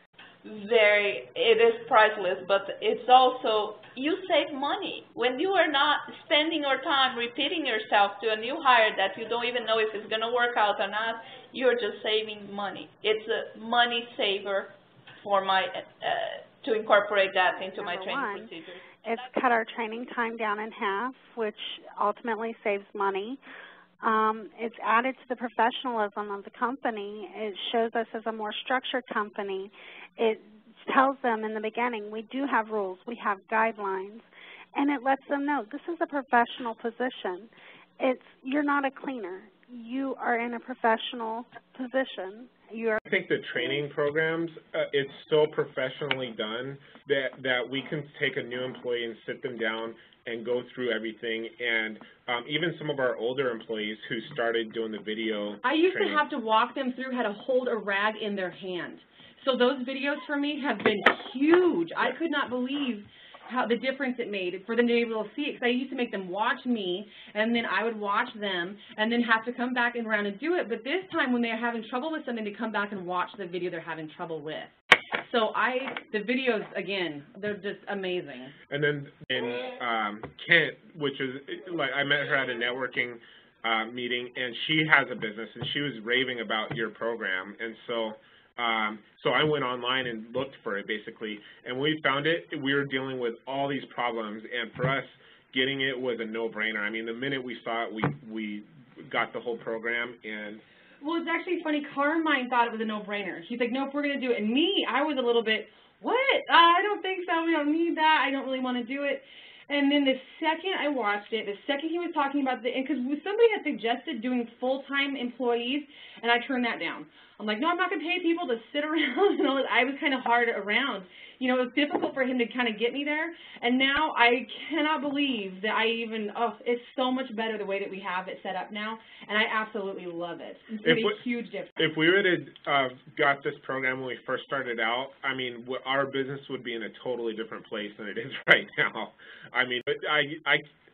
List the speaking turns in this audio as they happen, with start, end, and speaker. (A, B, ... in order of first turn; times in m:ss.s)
0:00.4-0:19.0 A
0:17.7-0:18.5 B
0:19.0-0:23.4 B
0:24.0-0:43.0 B
0:43.0-0:56.2 C
0:55.6-1:18.5 D
1:18.7-1:40.6 C
1:41.0-2:11.8 D
2:10.8-2:11.2 C
2:11.8-2:20.6 C